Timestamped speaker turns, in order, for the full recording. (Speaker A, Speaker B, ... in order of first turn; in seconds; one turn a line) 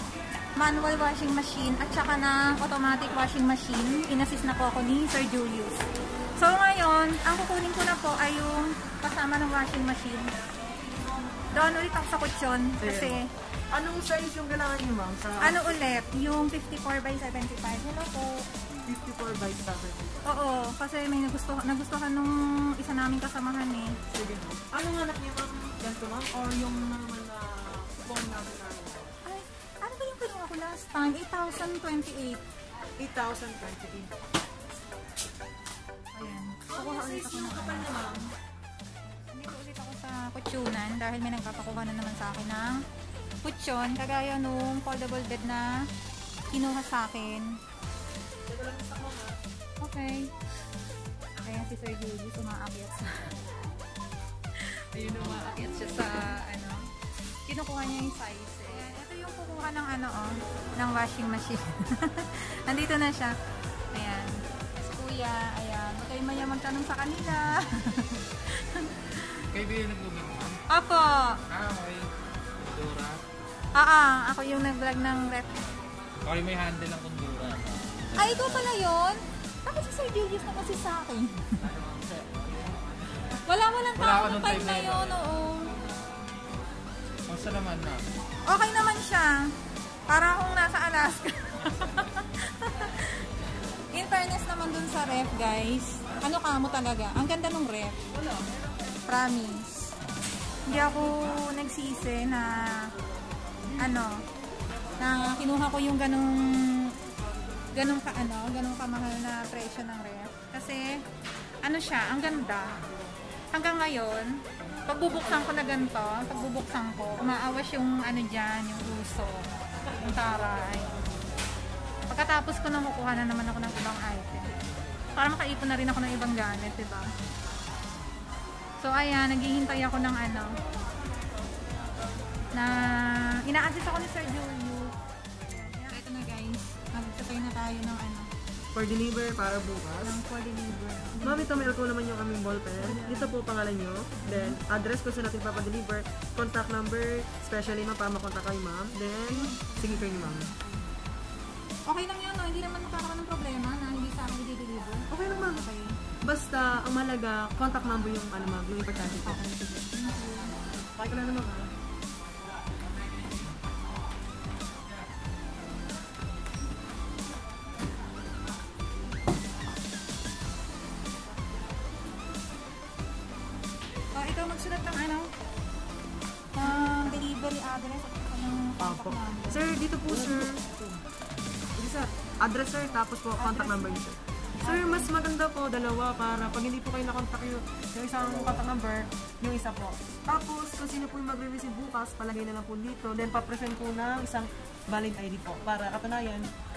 Speaker A: 0.6-5.8
Speaker A: 6.4-10.3
Speaker A: 11.5-13.3
Speaker B: 12.8-15.6
Speaker A: 15.4-18.5
Speaker B: 18.8-20.3
Speaker A: 20.2-24.0
Speaker B: 24.1-29.1
Speaker A: 29.2-32.4
Speaker B: 33.0-34.1
Speaker A: 36.1-38.2
Speaker B: 36.7-38.3
Speaker A: 39.3-42.9
Speaker A: 43.4-45.9
Speaker A: 46.5-47.6
Speaker B: 48.5-49.4
Speaker A: 49.8-50.3
Speaker A: 51.4-53.3
Speaker A: 54.6-56.9
Speaker B: 54.9-56.1
Speaker A: 57.5-63.4
Speaker A: 63.9-69.4
Speaker C: 69.5-70.6
Speaker A: 70.7-71.4
Speaker C: 71.5-72.1
Speaker C: 72.6-73.2
Speaker A: 73.8-75.5
Speaker C: 76.2-78.7
Speaker A: 78.2-81.7
Speaker C: 81.8-82.8
Speaker A: 83.5-85.8
Speaker C: 84.0-85.1
Speaker C: 87.3-88.0
Speaker A: 88.5-89.5
Speaker A: 90.1-93.3
Speaker A: 93.9-98.0
Speaker A: 99.1-100.0
Speaker A: 100.7-102.9
Speaker A: 103.8-104.2
Speaker A: 105.0-106.9
Speaker A: 107.7-111.0
Speaker A: 111.6-112.8
Speaker A: 113.5-121.0
Speaker A: 122.1-124.6
Speaker A: 125.2-127.1
Speaker A: 128.8-130.5
Speaker A: 132.5-134.9
Speaker A: 135.5-138.3
Speaker B: 138.7-140.2
Speaker A: 140.1-141.7
Speaker B: 141.2-150.5
Speaker A: 142.8-143.3
Speaker A: 144.2-144.6
Speaker A: 149.3-150.8
Speaker A: 151.9-155.9
Speaker B: 155.1-155.7
Speaker B: 156.3-159.4
Speaker A: 159.2-160.5
Speaker B: 161.0-161.7
Speaker A: 174.1-175.3
Speaker A: 176.6-179.6
Speaker B: 176.6-177.2
Speaker B: 178.8-180.8
Speaker B: 181.8-196.5
Speaker A: 183.4-184.1
Speaker A: 184.6-185.1